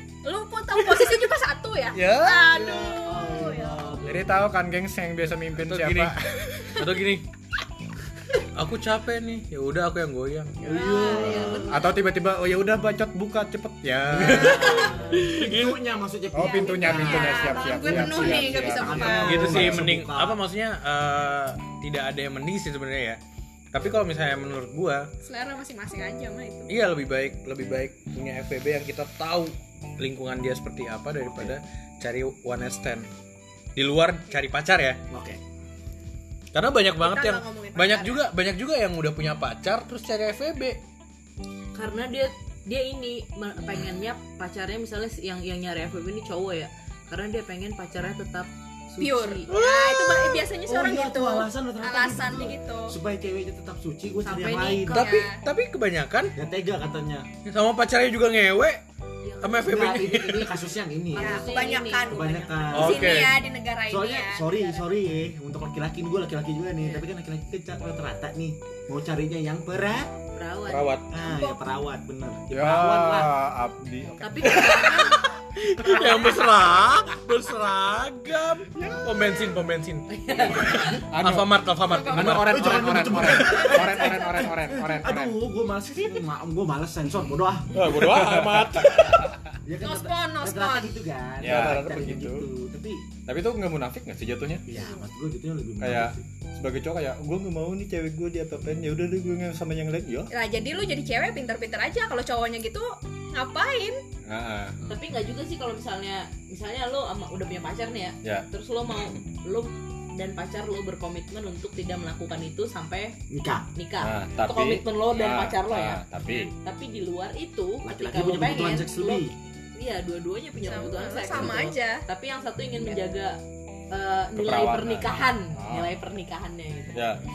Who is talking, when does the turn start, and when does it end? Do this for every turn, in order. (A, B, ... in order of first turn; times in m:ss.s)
0:00.2-0:04.0 A
0:00.8-0:01.3 B
0:01.9-0:02.8 B
0:02.7-0:04.5 C
0:04.0-0:06.7 D
0:05.6-0:06.1 B
0:06.7-0:07.3 B
0:08.5-0:10.7 B
0:10.6-0:11.8 C
0:10.7-0:11.9 A
0:11.1-0:14.9 D
0:14.1-0:20.4 C
0:14.1-0:15.8 B
0:16.3-0:19.8 D
0:16.5-0:19.7 A
0:19.1-0:23.2 B
0:23.7-0:25.1 B
0:25.2-0:26.7 A
0:26.7-0:33.1 B
0:33.8-0:35.0 B
0:35.1-0:35.4 C
0:36.5-0:40.8 B
0:37.0-0:38.2 A
0:41.8-0:49.5 E
0:49.0-0:53.0 A
0:49.5-0:50.5 B
0:50.7-0:55.0 C
0:54.2-0:55.2 E
0:54.9-0:56.3 B
0:55.0-0:55.4 A
0:56.4-0:57.3 C
0:57.4-0:58.8 B
0:59.2-1:03.0 E
0:59.4-1:00.6 B
0:59.7-1:01.5 C
1:01.1-1:04.9 A
1:02.1-1:03.4 C
1:02.7-1:03.4 B
1:03.9-1:10.1 C
1:10.3-1:11.0 E
1:10.7-1:11.1 B
1:11.1-1:13.3 C
1:11.2-1:11.6 A
1:12.5-1:14.9 D
1:14.2-1:15.3 E
1:14.4-1:23.8 B
1:18.7-1:19.4 D
1:20.1-1:21.0 E
1:21.1-1:21.5 D
1:21.9-1:22.4 A
1:22.1-1:25.4 D
1:22.3-1:27.9 C
1:23.4-1:24.4 A
1:27.7-1:29.4 B
1:27.9-1:29.3 D
1:29.6-1:33.0 C
1:29.8-1:31.1 A
1:31.4-1:32.3 D
1:31.4-1:32.5 B
1:33.3-1:34.7 D
1:34.7-1:36.2 C
1:35.8-1:40.3 D
1:40.3-1:44.0 A
1:44.3-1:44.8 D
1:44.9-1:53.2 E
1:53.3-1:53.7 C
1:53.8-2:03.4 E
1:54.0-1:56.5 D
1:57.8-1:59.3 C
2:00.6-2:02.0 A
2:03.9-2:07.2 E
2:04.4-2:05.9 D
2:06.9-2:07.2 D